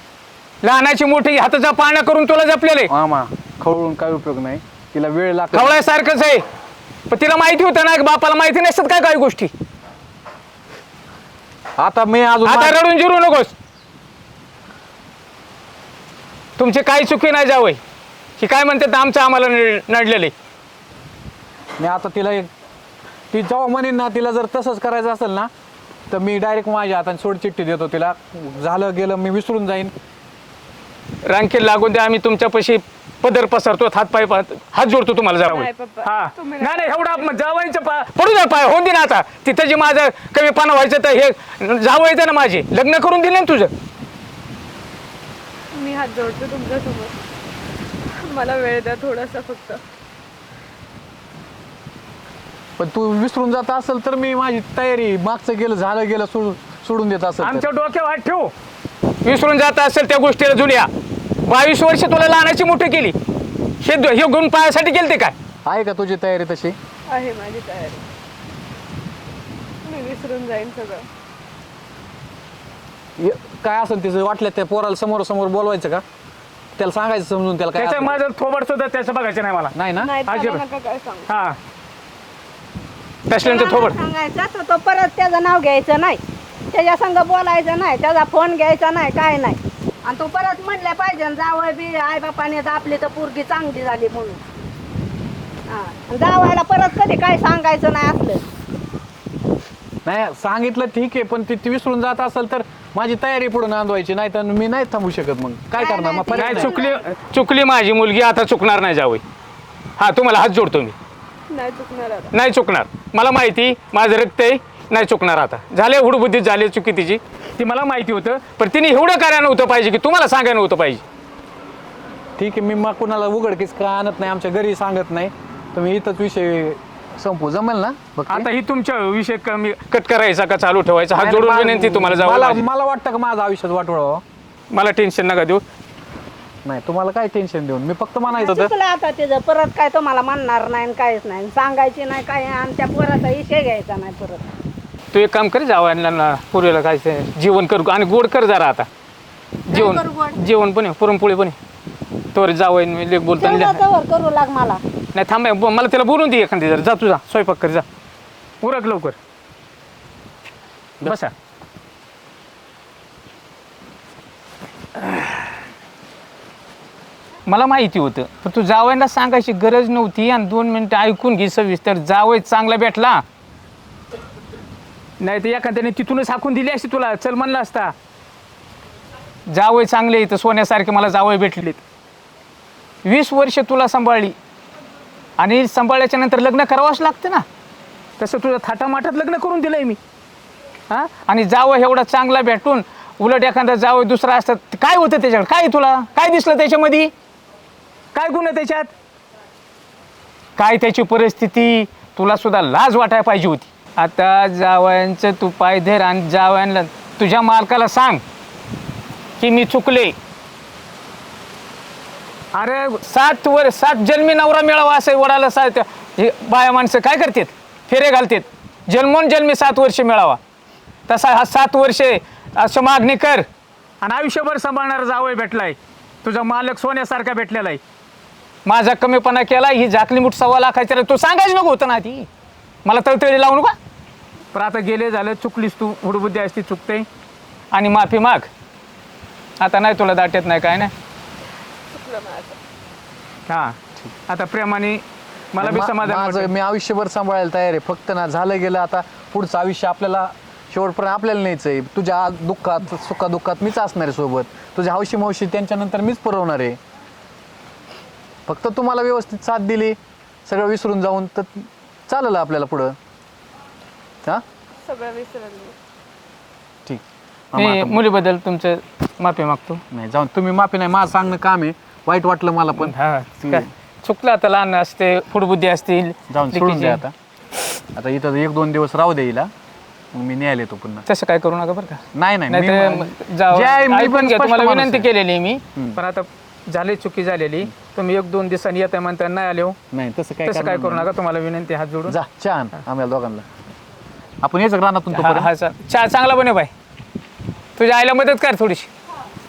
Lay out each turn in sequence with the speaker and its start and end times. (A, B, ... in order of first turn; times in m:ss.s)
0:00.6-0:02.9 A
0:02.9-0:05.8 B
0:05.5-0:06.4 A
0:07.1-0:09.5 A
0:11.8-0:12.8 B
0:12.4-0:13.5 A
0:16.6-0:17.8 A
0:18.4-0:20.3 A
0:21.8-0:22.5 B
0:23.3-0:25.5 B
0:26.1-0:29.9 B
0:31.2-0:43.7 A
0:35.5-0:37.2 C
0:45.7-0:47.2 C
0:48.2-0:49.8 C
0:52.8-0:57.6 B
0:57.4-0:58.5 A
0:59.2-1:00.9 A
1:01.4-1:03.1 A
1:03.8-1:05.3 A
1:05.6-1:06.8 B
1:07.1-1:08.0 C
1:09.8-1:11.1 C
1:13.2-1:16.0 B
1:16.8-1:18.2 B
1:17.8-1:19.7 A
1:19.7-1:20.2 B
1:20.0-1:21.3 C
1:20.3-1:20.6 A
1:21.3-1:21.6 A
1:23.3-1:24.0 A
1:23.4-1:26.2 D
1:26.7-1:34.4 D
1:35.7-1:38.4 D
1:40.0-1:46.8 B
1:45.7-1:47.0 D
1:46.3-1:49.2 A
1:50.0-1:50.9 A
1:51.5-1:52.3 C
1:52.3-2:01.0 A
2:02.4-2:08.5 B
2:08.3-2:12.6 A
2:11.2-2:14.2 B
2:14.7-2:15.6 A
2:16.6-2:18.7 B
2:18.3-2:24.4 D
2:25.1-2:28.9 A
2:29.7-2:31.6 A
2:29.7-2:30.4 D
2:32.3-2:33.8 A
2:33.4-2:34.8 D
2:35.1-2:37.8 A
2:38.6-2:39.2 A
2:41.0-2:41.3 A
2:47.4-2:53.2 A
2:55.2-2:57.9 A
2:59.5-3:01.8 A
3:03.0-3:04.3 A
3:05.4-3:07.4 A
3:08.2-3:10.0 A
3:10.9-3:17.1 A
3:18.1-3:18.9 A
3:20.6-3:28.2 A
3:29.4-3:30.1 A
3:32.5-3:40.4 A
3:41.1-3:43.4 A
3:44.0-3:47.8 A
3:48.6-3:52.3 A
3:52.8-3:53.8 A
3:54.5-3:57.1 A
3:57.7-3:58.5 A
3:59.6-4:00.9 A
4:01.9-4:02.6 C
4:03.5-4:03.8 A
4:04.3-4:06.5 A
4:05.6-4:16.8 B
4:18.5-4:22.9 B
4:24.8-4:25.7 C
4:26.8-4:28.0 B
4:27.6-4:29.8 A
4:29.9-4:33.7 B
4:32.8-4:37.0 A
4:36.3-4:37.1 B
4:38.0-4:39.5 B
4:40.1-4:41.0 B
4:41.1-4:49.8 A
4:42.1-4:45.1 B
4:49.9-4:51.1 B
4:50.4-4:52.2 A
4:52.1-4:53.5 B
4:54.4-4:55.5 B
4:55.1-4:56.7 A
4:57.8-4:58.9 A